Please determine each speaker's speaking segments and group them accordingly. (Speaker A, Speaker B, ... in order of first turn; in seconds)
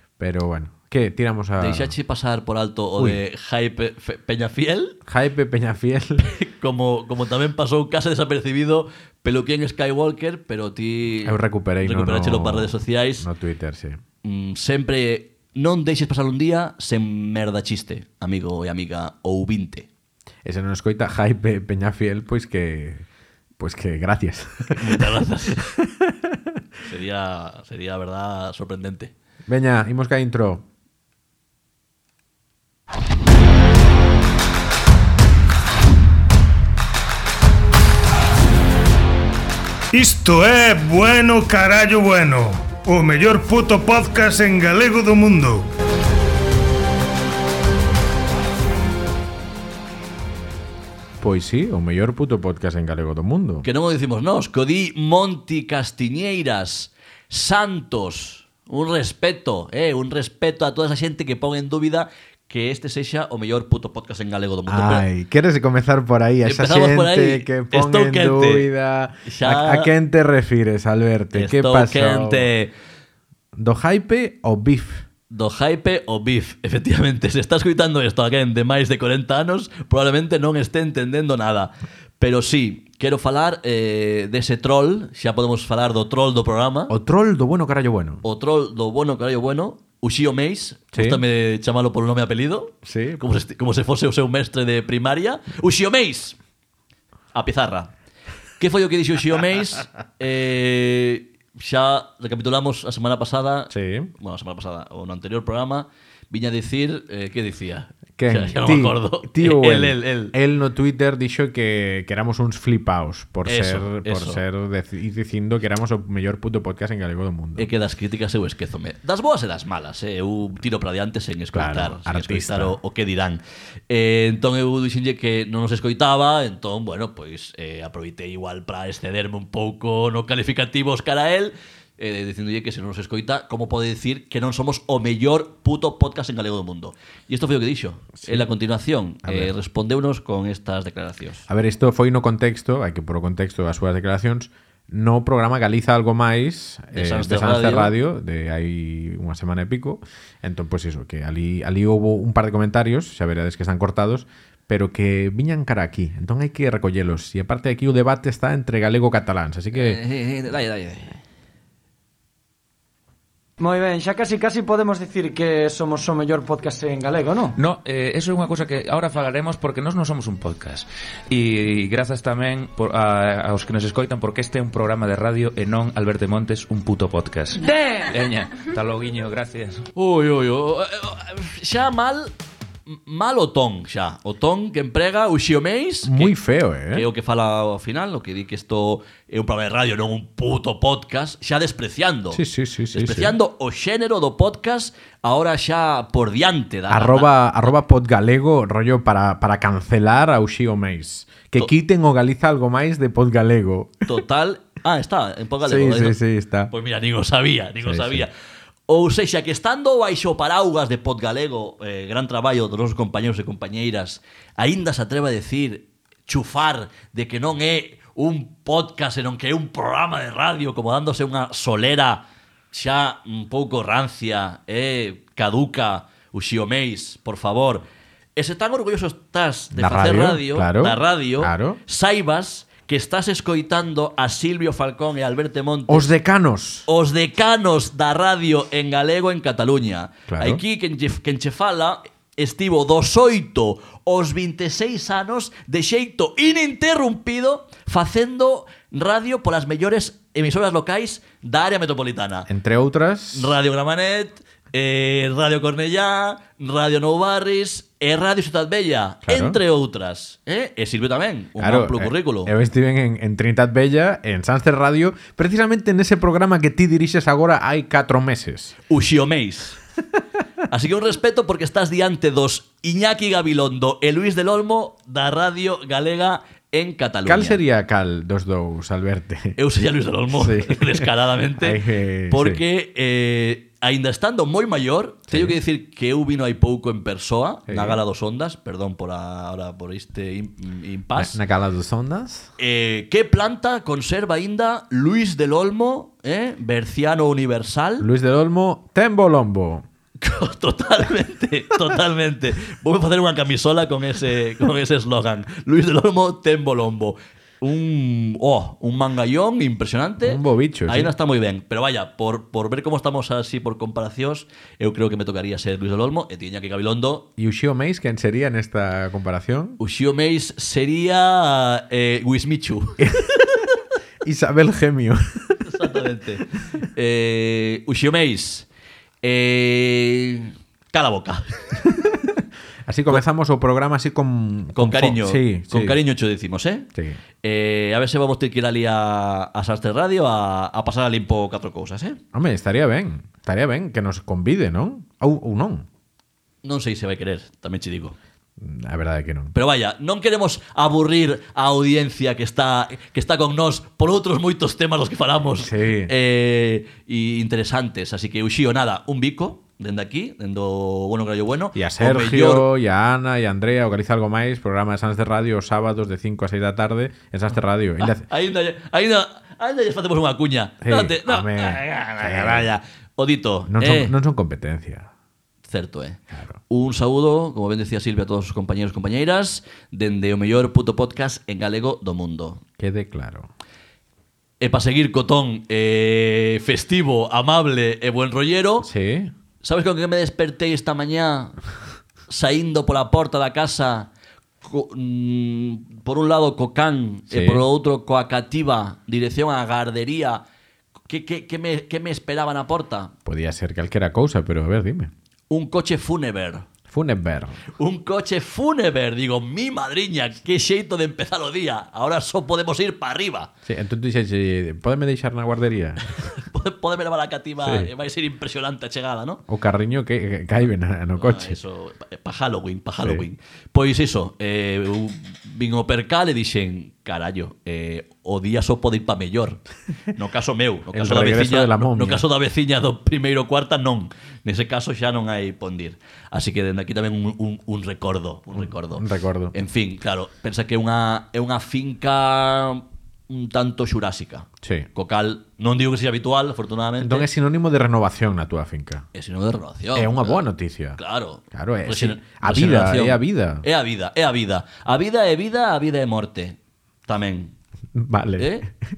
Speaker A: 0.2-1.9, 5.0-6.3, 11.2-14.0, 20.4-23.0, 23.6-26.4, 29.5-30.6, 51.2-53.6, 64.7-72.5, 73.5-75.0, 86.9-88.2, 90.9-91.2, 92.8-93.2, 103.7-104.1, 108.2-117.7, 121.5-122.8, 138.2-138.4, 139.2-139.5, 141.5-160.0, 186.1-187.1, 192.3-193.3, 196.9-204.1, 205.6-206.7, 207.8-208.2, 229.7-231.8, 235.9-236.9, 240.3-240.6, 252.5-253.6, 259.3-259.6, 261.6-268.8, 277.2-279.6, 280.3-282.6, 285.3-285.6, 287.7-288.0, 291.1-292.5, 298.0-299.9, 310.2-311.1, 317.4-319.8, 323.0-323.6, 324.2-325.7, 332.9-336.0, 342.3-345.9, 348.6-349.5, 355.6-356.1, 361.7-368.3, 370.8-372.7, 373.7-375.1, 376.3-376.6, 382.8-383.5, 388.8-389.3, 397.3-397.6, 403.2-405.1, 406.9-407.6, 413.6-416.2, 417.6-417.9, 419.5-421.6, 430.9-432.2, 438.5-439.5, 444.6-444.9, 447.0-449.0, 449.9-451.0, 451.5-453.6, 457.9-458.7
Speaker B: 1.6-5.0, 6.2-13.3, 14.2-19.9, 24.8-25.7, 26.8-29.1, 53.6-65.1, 66.4-68.7, 69.2-69.9, 71.3-72.7, 75.3-86.9, 88.2-96.4, 97.3-97.9, 98.6-110.3, 113.4-114.4, 117.6-141.5, 146.9-147.9, 159.7-161.2, 179.9-182.3, 182.9-186.3, 186.9-192.4, 192.9-197.3, 204.1-206.2, 206.7-208.3, 208.9-227.8, 228.3-236.1, 236.9-252.5, 253.3-262.5, 268.9-269.8, 270.7-277.6, 279.6-291.4, 292.6-298.1, 300.2-317.3, 319.8-323.0, 325.6-328.7, 329.2-331.9, 334.7-336.9, 337.4-342.2, 346.6-348.1, 349.5-362.7, 368.0-374.1, 375.6-382.6, 384.6-388.9, 389.6-391.6, 392.3-394.1, 394.6-400.4, 401.1-403.1, 405.5-406.7, 407.8-413.5, 416.1-419.4, 421.2-429.6, 430.1-447.3, 449.1-457.5, 458.4-458.7
Speaker C: 39.9-45.6
Speaker D: 163.6-167.5
Speaker E: 167.6-179.8